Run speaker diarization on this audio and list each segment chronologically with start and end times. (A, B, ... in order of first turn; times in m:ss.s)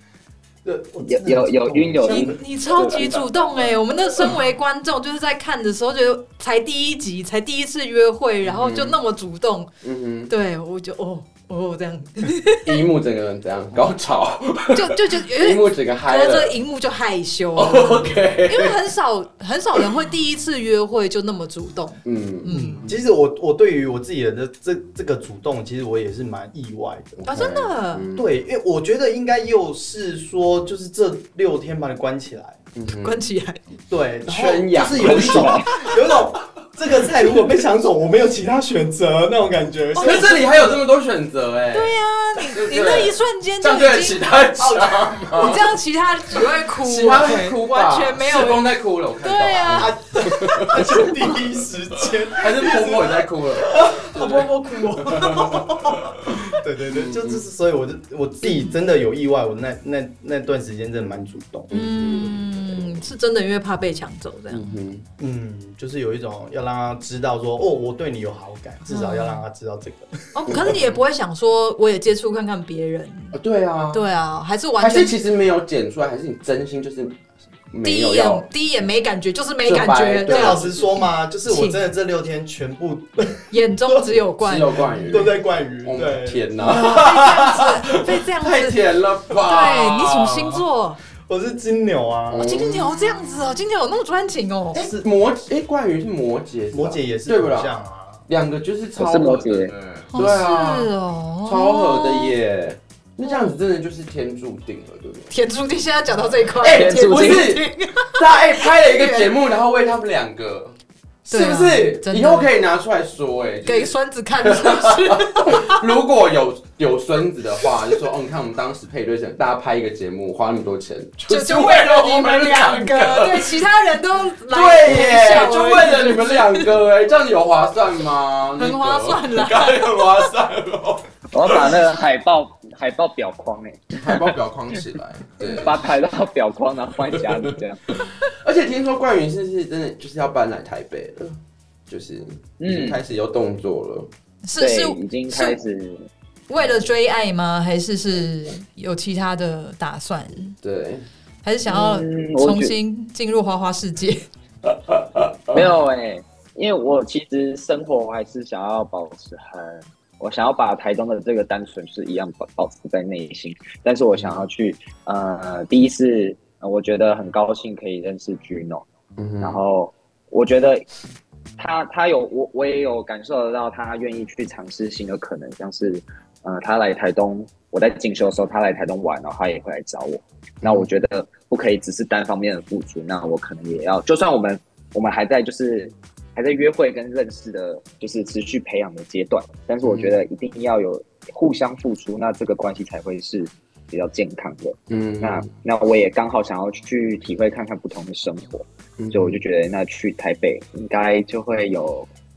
0:00.6-0:03.3 A
0:01.0-0:03.2 B
0:02.0-0:09.7 C
0:08.4-0:09.0 D
0:09.8-0:10.3 D
0:10.3-0:12.8 C
0:12.6-0:16.6 D
0:14.7-0:22.8 C
0:17.5-0:18.8 D
0:22.0-0:23.0 D
0:22.5-0:27.2 A
0:27.2-0:28.3 D
0:27.2-0:28.1 C
0:28.1-0:32.6 A
0:32.7-0:33.2 D
0:32.9-0:33.6 C
0:33.9-0:40.7 A
0:34.2-0:35.8 D
0:35.0-0:35.6 B
0:39.9-0:40.5 C
0:40.0-0:45.7 D
0:41.7-0:44.4 C
0:44.6-0:45.4 A
0:45.3-0:48.6 C
0:46.8-0:51.3 D
0:49.2-0:50.0 C
0:49.7-0:54.5 A
0:52.3-0:57.4 D
0:54.0-0:56.0 C
0:55.2-0:55.6 A
0:56.5-1:02.2 A
1:01.7-1:03.0 D
1:01.7-1:04.7 C
1:04.5-1:05.1 D
1:05.2-1:10.8 A
1:08.9-1:09.4 C
1:10.3-1:13.4 C
1:10.4-1:11.0 D
1:13.3-1:14.0 D
1:13.9-1:15.2 C
1:14.8-1:18.5 D
1:17.8-1:21.8 C
1:19.6-1:20.9 D
1:20.2-1:24.2 A
1:23.5-1:25.0 C
1:24.4-1:30.6 D
1:25.0-1:27.0 A
1:26.6-1:28.8 C
1:29.3-1:31.0 C
1:31.3-1:32.5 A
1:32.3-1:33.0 D
1:32.4-1:34.8 C
1:34.7-1:37.8 D
1:34.7-1:35.0 A
1:36.7-1:38.2 A
1:38.3-1:40.9 D
1:39.0-1:39.7 B
1:40.1-1:42.3 C
1:41.4-1:45.3 D
1:43.2-1:43.5 C
1:45.3-1:49.3 C
1:46.6-2:03.6 D
1:46.6-1:47.5 B
1:51.3-1:52.5 C
1:53.6-1:55.9 C
2:01.3-2:06.7 C
2:04.5-2:11.8 D
2:08.6-2:10.1 C
2:11.3-2:14.3 B
2:14.0-2:15.9 D
2:15.5-2:18.1 B
2:17.1-2:24.1 D
2:22.6-2:23.0 B
2:24.4-2:25.6 C
2:24.6-2:26.1 B
2:26.5-2:30.6 C
2:30.6-2:31.0 D
2:31.4-2:34.2 C
2:31.7-2:32.7 B
2:34.6-2:35.7 D
2:35.5-2:48.8 B
2:44.1-2:44.4 D
2:49.2-2:49.6 D
2:49.4-2:50.8 B
2:51.6-3:22.1 B
3:00.6-3:00.9 D
3:09.8-3:10.2 D
3:14.9-3:15.5 D
3:19.0-3:19.4 D